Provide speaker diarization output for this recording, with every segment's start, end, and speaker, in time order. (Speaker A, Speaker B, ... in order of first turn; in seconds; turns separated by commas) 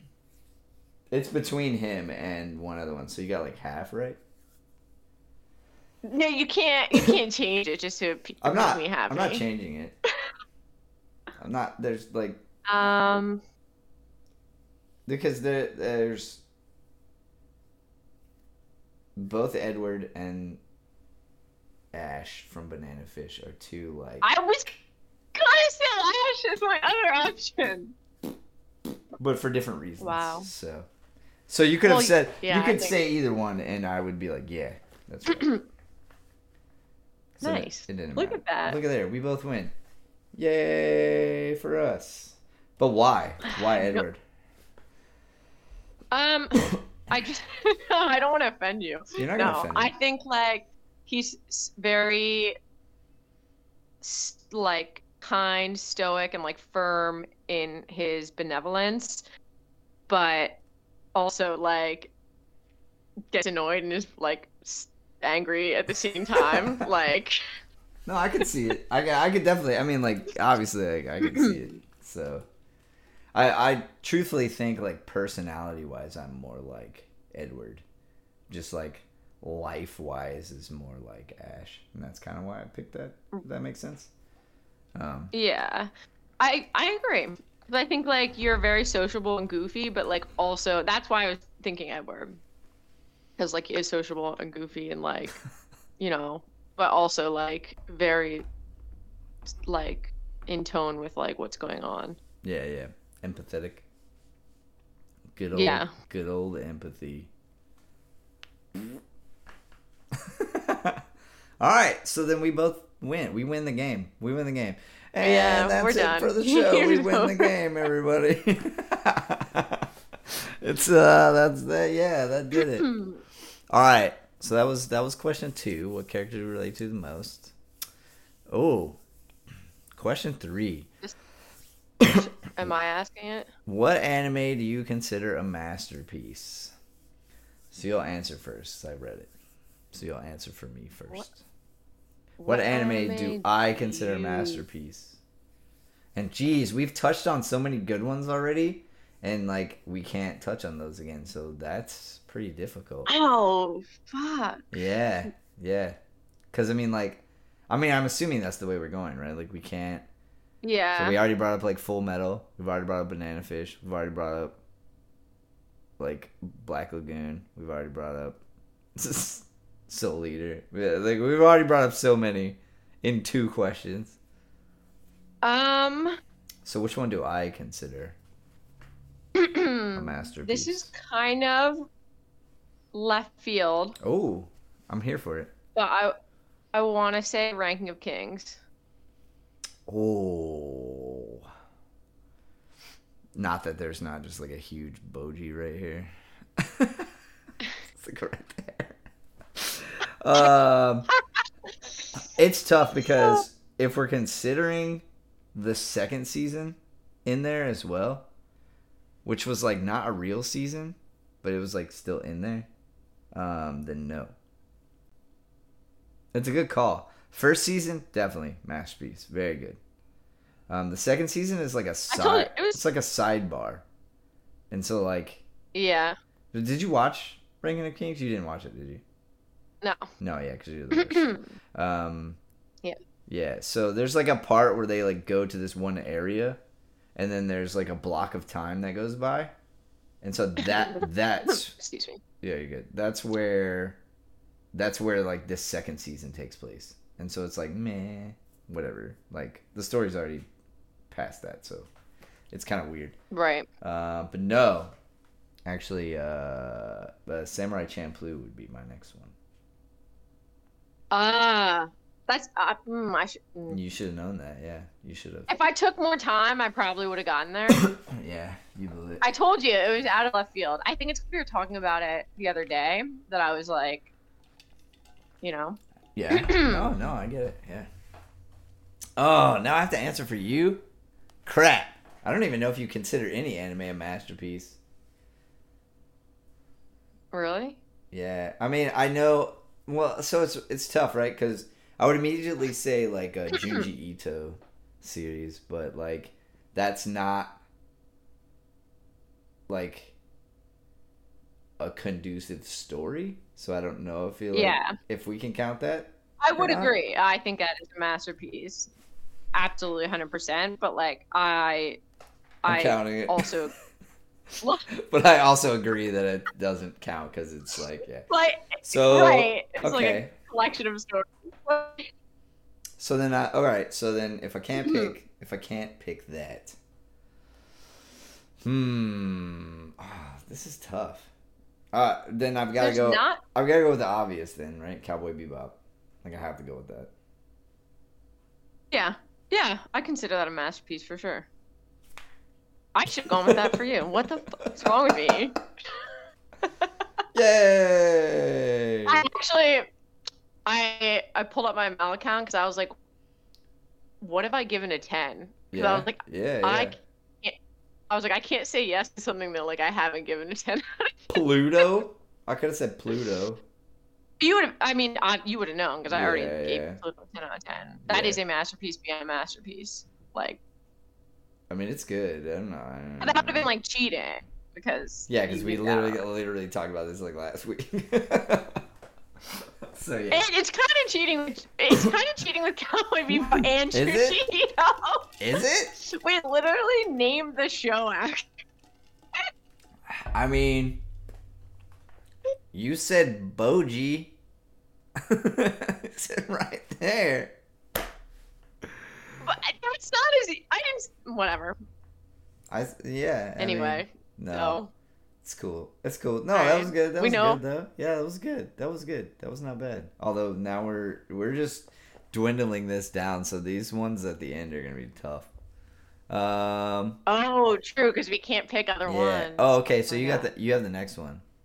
Speaker A: 1.1-4.2, Speaker B: 6.0-9.4, Speaker A: 8.4-10.0, Speaker A: 11.4-12.4, Speaker B: 12.7-13.4, Speaker A: 15.1-16.4, Speaker A: 19.2-20.6, Speaker A: 21.9-24.3, Speaker B: 24.2-24.8, Speaker B: 25.3-27.9, Speaker A: 29.2-30.9, Speaker B: 30.0-30.5, Speaker A: 31.5-35.6, Speaker B: 31.8-33.0, Speaker A: 37.4-39.7, Speaker B: 37.4-38.8, Speaker A: 40.4-44.2, Speaker B: 43.6-44.0, Speaker B: 46.1-52.6, Speaker A: 49.2-49.9, Speaker B: 54.0-59.2, Speaker B: 60.1-60.6, Speaker B: 61.1-62.1, Speaker B: 63.3-67.4, Speaker A: 66.4-66.8, Speaker A: 68.1-72.5, Speaker B: 71.2-71.6, Speaker A: 73.3-77.8, Speaker A: 78.5-84.1, Speaker A: 85.0-85.3, Speaker B: 85.3-92.4, Speaker B: 93.4-95.4, Speaker B: 96.0-98.5, Speaker B: 99.7-102.2, Speaker A: 102.4-103.8, Speaker A: 105.3-107.3, Speaker B: 105.5-105.9, Speaker A: 110.2-111.0, Speaker A: 111.6-122.9, Speaker B: 115.2-117.5, Speaker B: 122.5-123.2, Speaker A: 123.7-127.5, Speaker A: 128.5-129.0, Speaker A: 129.9-130.9, Speaker A: 132.0-132.7, Speaker B: 132.1-133.5, Speaker A: 133.7-136.7, Speaker A: 137.7-139.3, Speaker A: 139.9-141.4, Speaker B: 142.4-144.6, Speaker A: 142.4-145.2, Speaker A: 146.2-153.1, Speaker B: 153.1-154.7, Speaker A: 154.7-156.0, Speaker A: 156.5-160.1, Speaker B: 160.6-161.2, Speaker A: 161.0-164.6, Speaker A: 166.0-168.4, Speaker A: 169.0-174.2, Speaker B: 175.4-176.2, Speaker A: 176.7-178.2, Speaker B: 179.3-181.9, Speaker A: 179.9-180.9, Speaker B: 182.9-184.0, Speaker A: 184.0-185.5, Speaker B: 185.8-186.2, Speaker B: 186.7-188.6, Speaker A: 189.9-191.5, Speaker A: 193.3-197.1, Speaker A: 197.9-199.0, Speaker A: 199.6-201.1, Speaker A: 202.2-208.3, Speaker B: 203.2-203.4, Speaker A: 209.2-212.7, Speaker A: 213.3-214.4, Speaker A: 216.3-219.8, Speaker A: 220.7-223.8, Speaker B: 222.1-222.8, Speaker A: 224.7-225.4, Speaker B: 225.7-226.2, Speaker A: 226.5-229.0, Speaker B: 229.8-230.1, Speaker A: 230.2-232.4, Speaker B: 230.9-231.5, Speaker A: 233.3-236.6, Speaker A: 237.2-239.5, Speaker A: 240.2-241.8, Speaker B: 240.8-242.2, Speaker A: 242.4-244.0, Speaker A: 244.7-250.5, Speaker A: 251.1-251.9, Speaker A: 252.5-253.2, Speaker B: 253.3-253.7, Speaker A: 253.8-254.9, Speaker A: 255.7-259.4, Speaker B: 261.1-263.8, Speaker A: 263.7-265.5, Speaker B: 265.5-267.8, Speaker A: 267.7-269.2, Speaker B: 269.2-274.1, Speaker B: 275.4-275.8, Speaker A: 276.1-277.9, Speaker B: 276.3-276.9, Speaker A: 279.2-280.9, Speaker A: 281.4-284.8, Speaker B: 287.3-287.8, Speaker A: 288.1-297.6, Speaker B: 293.5-293.9, Speaker A: 299.7-300.2, Speaker A: 301.8-306.9, Speaker B: 304.5-305.0, Speaker B: 306.4-308.9, Speaker B: 309.5-312.0, Speaker B: 312.6-313.7, Speaker A: 312.7-313.6, Speaker A: 314.9-318.3, Speaker B: 318.3-322.1, Speaker A: 318.8-320.3, Speaker A: 323.0-326.8, Speaker B: 324.8-325.1, Speaker A: 328.6-331.3, Speaker A: 331.9-337.1, Speaker B: 332.8-333.4, Speaker B: 338.9-341.5, Speaker B: 342.9-345.6, Speaker A: 343.3-344.9, Speaker B: 346.6-346.9, Speaker A: 347.3-349.2, Speaker B: 349.1-349.9, Speaker B: 350.7-352.9, Speaker B: 354.2-357.6, Speaker A: 355.7-357.0, Speaker B: 358.1-361.9, Speaker A: 361.3-363.6, Speaker B: 364.4-370.6, Speaker A: 366.1-367.0, Speaker A: 368.1-368.4, Speaker A: 371.7-373.7, Speaker B: 373.2-376.2, Speaker A: 375.3-378.8, Speaker A: 379.9-380.5, Speaker B: 380.3-388.5, Speaker A: 383.3-384.4, Speaker A: 385.4-385.9, Speaker A: 390.1-391.0, Speaker A: 392.7-394.4, Speaker A: 395.2-397.6, Speaker B: 399.4-401.8, Speaker A: 402.7-404.8, Speaker B: 403.6-404.9, Speaker A: 405.4-415.5, Speaker B: 406.5-407.6, Speaker A: 416.3-417.2, Speaker B: 417.3-420.5, Speaker A: 419.1-421.4